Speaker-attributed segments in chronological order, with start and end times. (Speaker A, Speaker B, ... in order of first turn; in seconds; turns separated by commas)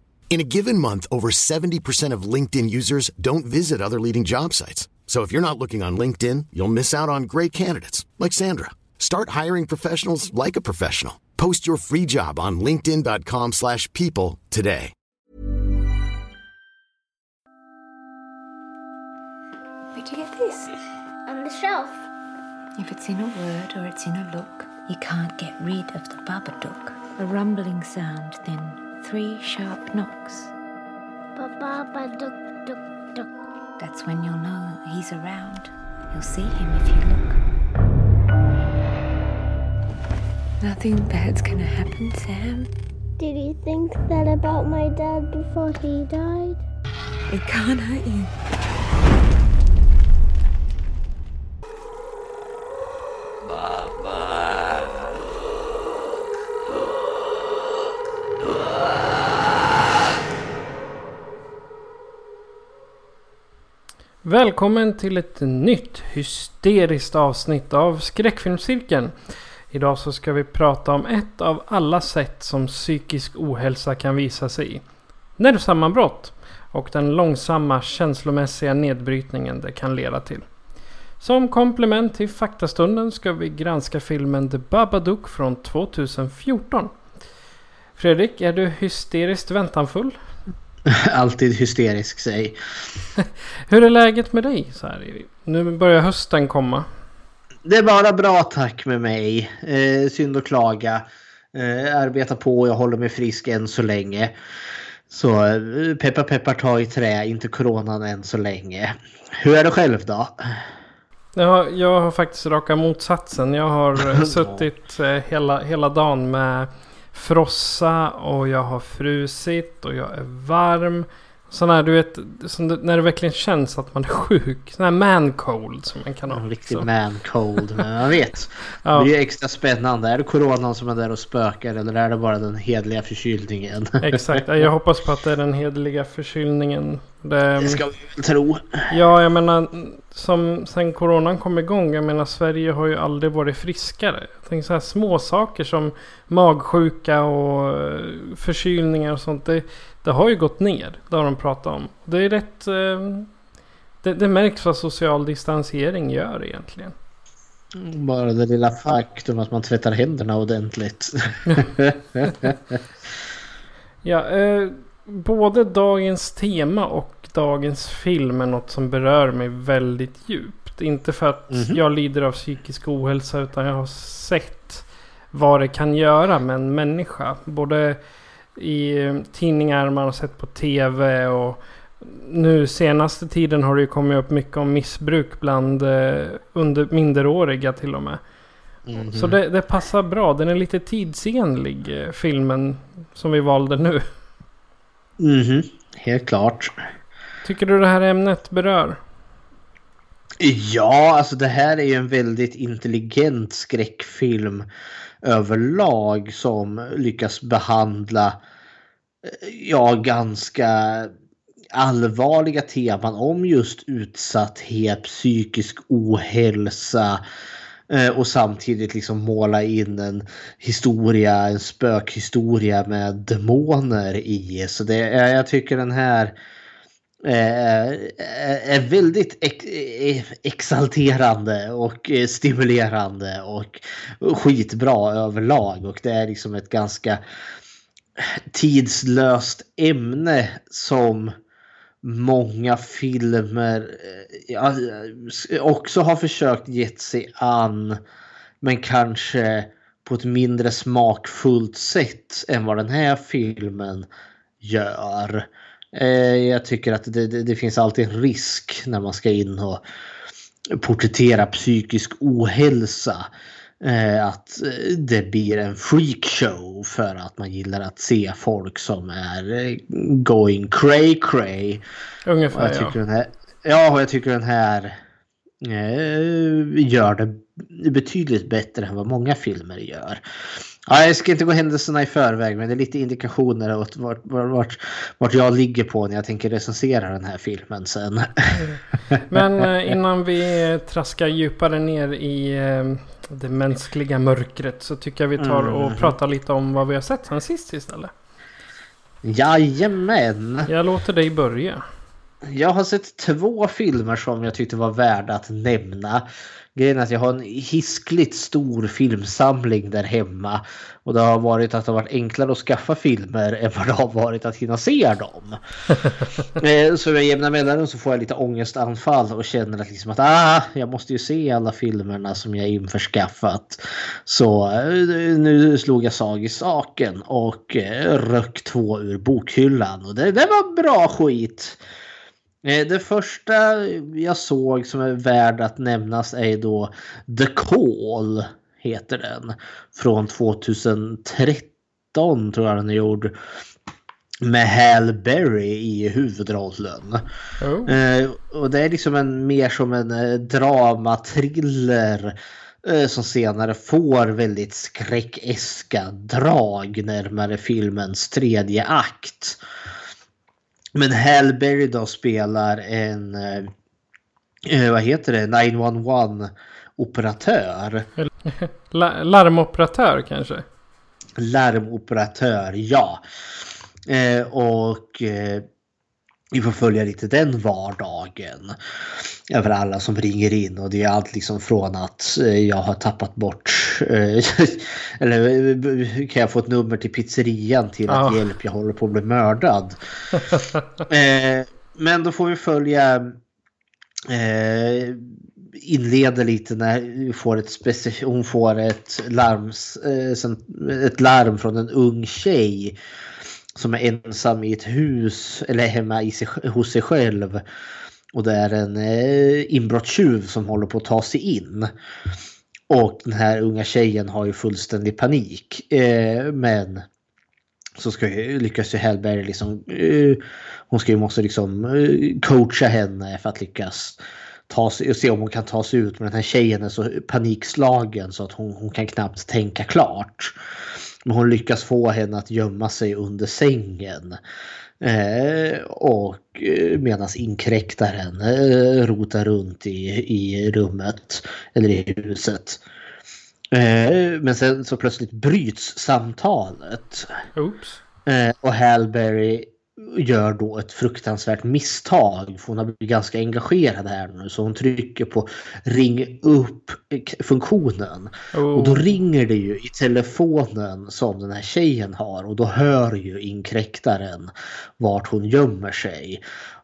Speaker A: 0.3-14.9, Speaker B: 19.9-20.7, Speaker C: 21.3-22.0, Speaker B: 22.8-30.5, Speaker C: 31.4-33.3, Speaker B: 33.8-37.4, Speaker B: 40.6-42.7, Speaker C: 43.2-46.6, Speaker B: 47.3-48.3, Speaker D: 64.2-69.1, Speaker D: 69.7-74.8, Speaker D: 75.4-80.5, Speaker D: 81.2-86.9, Speaker D: 88.0-90.2, Speaker E: 90.8-92.5, Speaker D: 93.2-96.9, Speaker E: 97.6-104.3, Speaker E: 105.1-110.4, Speaker D: 111.3-126.9, Speaker E: 114.0-114.6, Speaker E: 126.3-134.4, Speaker D: 128.8-129.1, Speaker D: 134.0-137.8, Speaker E: 137.6-138.9, Speaker D: 138.9-153.3, Speaker D: 154.0-156.9, Speaker E: 157.7-162.8, Speaker D: 164.0-178.0, Speaker E: 171.5-171.8, Speaker D: 178.6-188.2, Speaker E: 188.8-189.3, Speaker D: 189.1-194.0, Speaker E: 195.2-196.7, Speaker D: 197.4-199.0, Speaker E: 200.4-204.7, Speaker E: 205.2-208.4, Speaker E: 209.2-211.1, Speaker E: 211.7-217.2, Speaker E: 217.9-226.3, Speaker E: 227.2-237.2, Speaker E: 238.2-241.3, Speaker E: 242.0-248.0, Speaker E: 248.6-254.1, Speaker E: 254.6-259.8, Speaker E: 260.7-263.3, Speaker E: 263.8-271.8, Speaker D: 272.2-272.9, Speaker E: 272.5-274.9, Speaker E: 275.6-280.2, Speaker E: 280.9-288.3, Speaker D: 288.6-298.1, Speaker E: 289.1-289.9, Speaker E: 295.4-296.1, Speaker E: 299.2-300.7, Speaker D: 300.7-301.8, Speaker E: 302.4-315.6, Speaker E: 316.6-331.8, Speaker E: 332.6-343.3, Speaker E: 344.4-347.2, Speaker D: 347.6-347.9, Speaker E: 347.9-359.6, Speaker E: 360.9-363.7, Speaker E: 364.6-368.1, Speaker D: 368.2-370.6, Speaker E: 371.4-373.2, Speaker E: 374.1-375.6, Speaker E: 376.5-378.8, Speaker E: 379.5-390.0, Speaker D: 388.1-388.4, Speaker D: 390.3-390.8, Speaker E: 391.1-393.4, Speaker E: 394.3-403.0, Speaker E: 403.7-407.6, Speaker E: 408.3-411.9, Speaker E: 412.9-417.1, Speaker E: 418.0-430.6, Speaker E: 431.2-434.4, Speaker E: 435.0-442.8, Speaker E: 443.7-447.3, Speaker D: 447.6-448.0, Speaker E: 448.2-466.4, Speaker D: 458.5-459.1